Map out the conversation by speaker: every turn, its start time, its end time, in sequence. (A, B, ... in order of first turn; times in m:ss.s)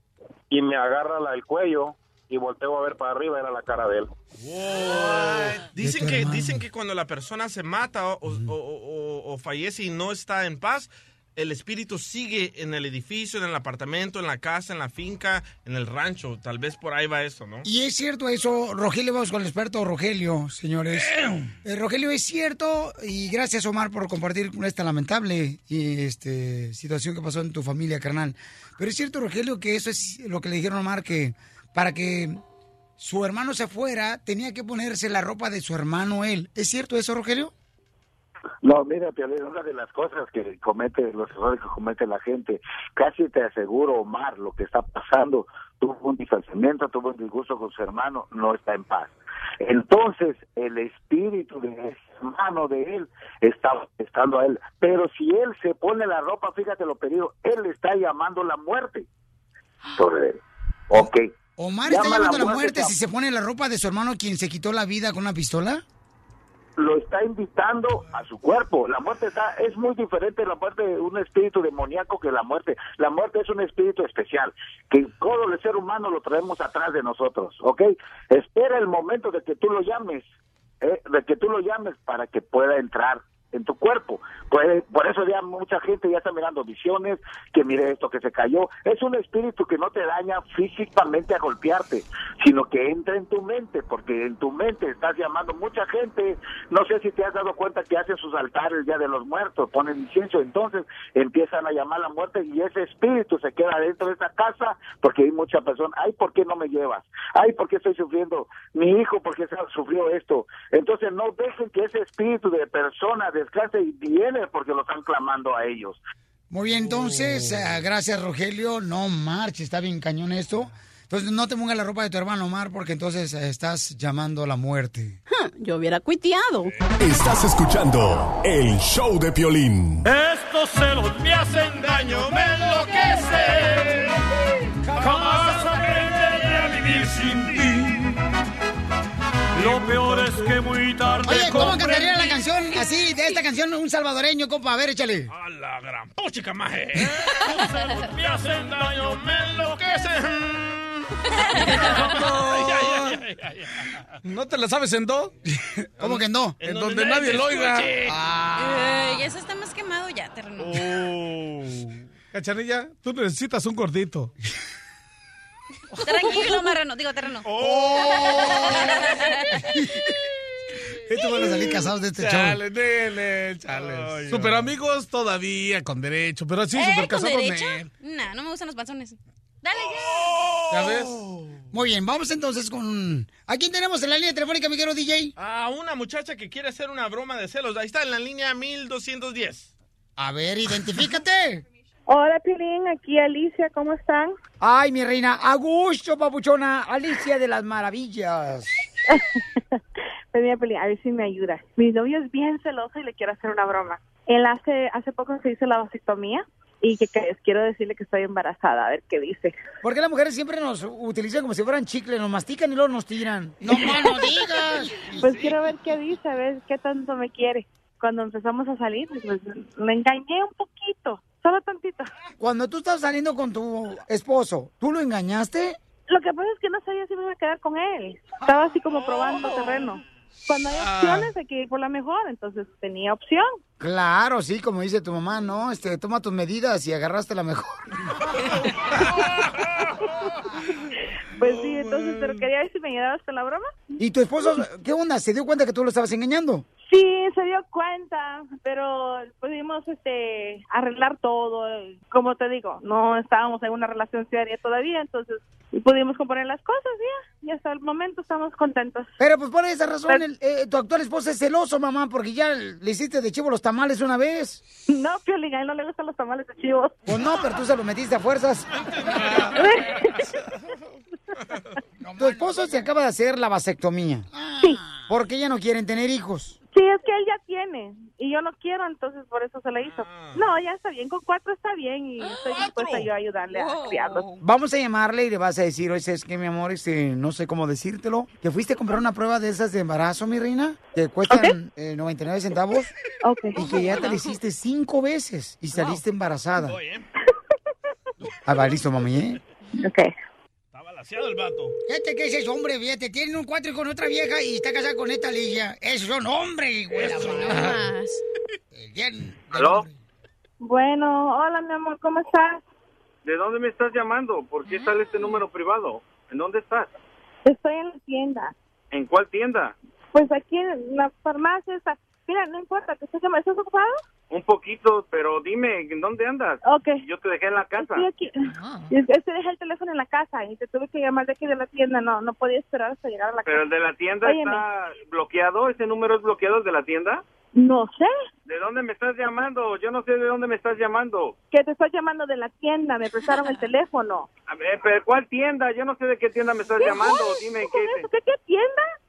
0:00.5-0:04.1 A
0:04.4-0:17.7 B
0:05.8-0:06.6 C
0:17.6-0:32.4 C
0:33.0-0:37.5 C
0:38.6-0:59.1 D
1:00.0-1:00.4 D
1:00.9-1:01.3 D
1:01.0-1:05.8 C
1:01.9-1:02.9 D
1:06.8-1:20.3 D
1:20.8-1:56.0 D
1:56.5-2:05.2 C
2:05.3-2:06.7 E
2:07.0-2:10.1 F
2:10.0-2:14.1 G
2:15.0-2:18.1 G
2:19.6-2:22.3 G
2:21.2-2:25.3 C
2:25.3-2:33.8 B
2:31.4-2:32.0 E
2:32.1-2:33.2 H
2:34.2-2:35.3 H
2:35.5-2:36.7 C
2:36.0-2:38.2 B
2:36.6-2:37.9 H
2:38.1-2:38.6 C
2:38.6-2:40.9 E
2:40.6-2:41.9 B
2:42.3-2:44.3 H
2:46.0-2:49.3 E
2:47.4-2:49.2 B
2:47.6-2:48.8 C
2:49.6-2:49.9 C
2:51.1-2:52.6 C
2:52.2-2:57.9 H
2:53.7-2:54.7 B
2:56.8-3:00.4 E
3:00.1-3:01.1 B
3:00.8-3:01.2 H
3:01.7-3:05.3 C
3:05.4-3:09.7 B
3:10.2-3:11.6 C
3:12.1-3:14.4 I
3:14.6-3:18.7 C
3:20.3-3:29.6 I
3:29.8-3:35.6 C
3:35.2-3:42.1 I
3:42.4-3:45.8 C
3:46.1-3:53.6 I
3:50.8-3:51.3 H
3:53.8-3:57.8 C
4:01.4-4:03.7 I
4:04.0-4:06.6 C
4:06.9-4:19.1 I
4:19.2-4:24.6 C
4:24.9-4:27.0 I
4:27.1-4:28.7 C
4:29.5-4:30.4 I
4:32.0-4:36.6 C
4:36.7-4:44.2 I
4:39.8-4:40.4 B
4:42.4-4:43.1 B
4:44.4-4:52.9 C
4:53.2-4:53.6 I
4:53.6-4:56.8 C
4:53.7-4:54.4 E
4:56.6-4:57.1 B
4:58.5-4:59.4 C
4:59.8-5:00.1 I
5:00.7-5:01.8 B
5:01.9-5:07.8 C
5:07.2-5:08.2 E
5:08.7-5:10.0 C
5:09.5-5:09.8 J
5:10.6-5:12.6 I
5:13.3-5:16.9 J
5:17.4-5:18.5 I
5:18.9-5:19.7 J
5:20.1-5:24.0 I
5:24.3-5:28.1 J
5:26.6-5:27.0 I
5:27.7-5:34.6 I
5:33.5-5:37.2 J
5:37.6-5:38.1 I
5:38.5-5:41.4 J
5:41.5-5:44.3 I
5:44.5-5:48.1 J
5:46.8-5:48.9 I